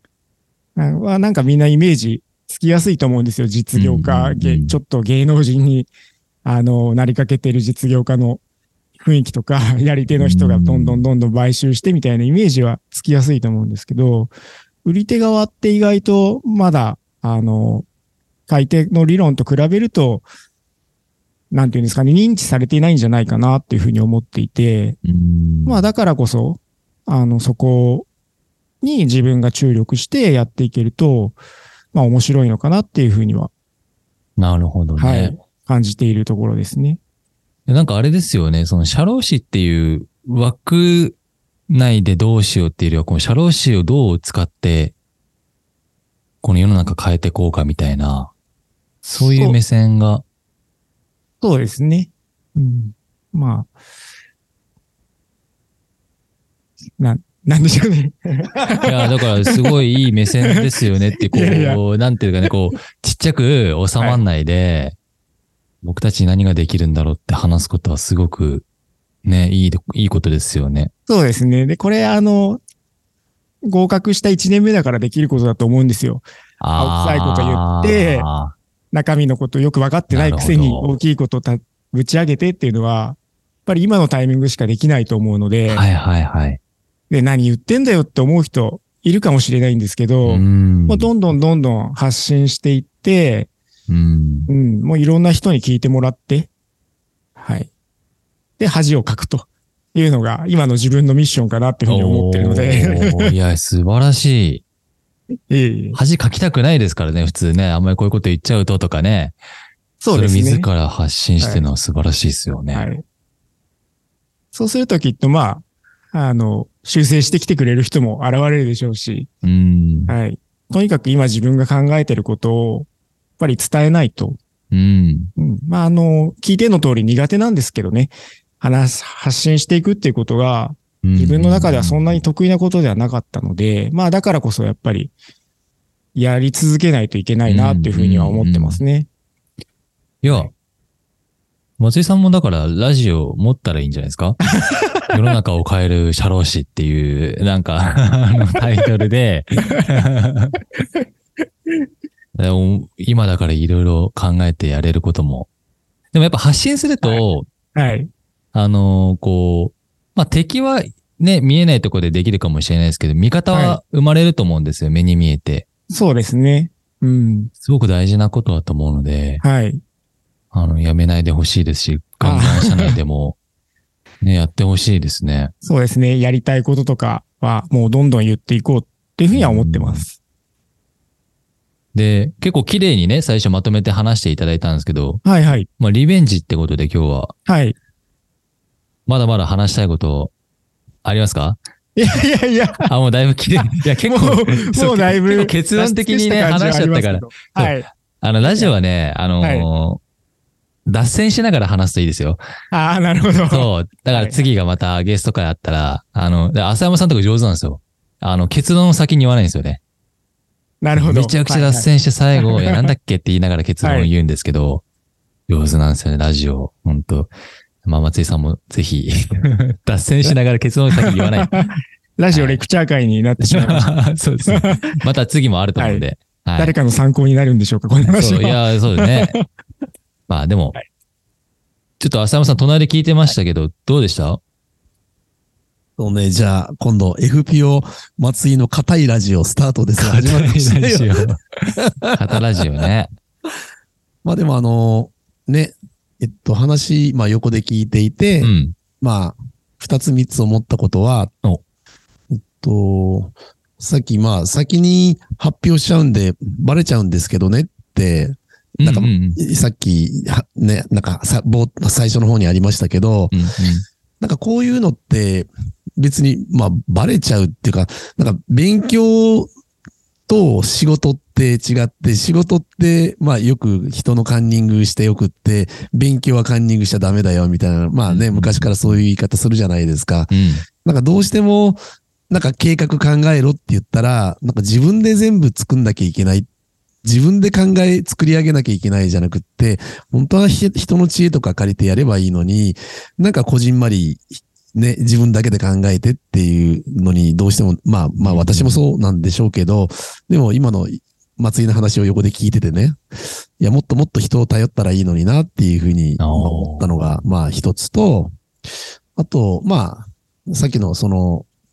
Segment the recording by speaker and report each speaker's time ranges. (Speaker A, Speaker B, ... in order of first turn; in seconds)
Speaker A: 0.7-5.9, 6.4-8.4, 9.0-14.3, 14.8-17.9, 18.5-20.2, 21.5-25.0, 25.6-28.1, 28.8-31.4, 31.9-33.5, 35.0-37.0, 49.2-49.6, 51.4-53.7, 57.0-59.8, 60.4-61.8, 71.1-72.6, 73.6-78.3, 78.9-85.8, 87.1-93.5, 94.5-96.5, 97.4-97.7, 98.6-103.3, 105.5-106.0, 110.0-110.7, 111.4-111.6, 112.7-113.0, 114.5-119.3, 120.1-122.9, 123.4-124.4, 125.4-135.1, 136.1-139.1, 144.5-144.9, 157.0-158.1, 163.5-163.8, 165.9-167.5, 169.4-169.8, 172.2-173.0, 175.6-180.2, 185.2-185.7, 187.5-187.8, 191.9-192.9, 193.5-197.9, 198.4-198.7, 199.4-199.7, 202.7-204.4, 210.8-212.9, 213.8-214.1, 221.0-221.6, 222.2-223.9, 224.4-224.9, 225.8-226.0, 226.6-229.4
Speaker B: 3.7-4.7, 10.1-11.1, 25.0-25.8, 34.4-35.3, 37.7-41.2, 41.7-44.9, 46.4-48.3, 49.0-50.2, 58.8-64.9, 65.8-68.6, 69.2-70.9, 76.6-78.5, 80.1-80.9, 85.7-86.6, 90.2-91.1, 93.9-94.5, 101.9-104.6, 105.9-109.3, 110.1-112.9, 119.4-120.1, 124.7-125.3, 131.0-132.2, 137.4-138.8, 140.2-140.5, 141.8-144.5, 145.1-150.6, 152.4-155.5, 156.1-157.5, 158.5-165.6, 167.6-169.4, 170.5-173.4, 174.2-175.5, 179.3-180.1, 181.9-185.2, 185.8-187.3, 189.1-190.3, 191.0-191.6, 192.9-200.0, 200.8-202.4, 203.5-209.8, 210.9-214.8, 215.5-217.3, 217.8-221.7, 222.3-222.6, 223.4-226.8, 228.0-229.3, 230.3-230.8, 232.0-234.4, 240.0-243.1, 248.4-248.8, 258.8-259.4, 263.3-263.8, 278.1-279.0, 280.3-280.6, 298.2-298.8, 306.2-306.9
Speaker C: 236.0-241.1, 244.2-251.3, 252.3-263.3, 264.2-269.5, 270.3-281.8, 282.3-286.5, 287.0-303.0, 303.6-308.3, 309.1-311.5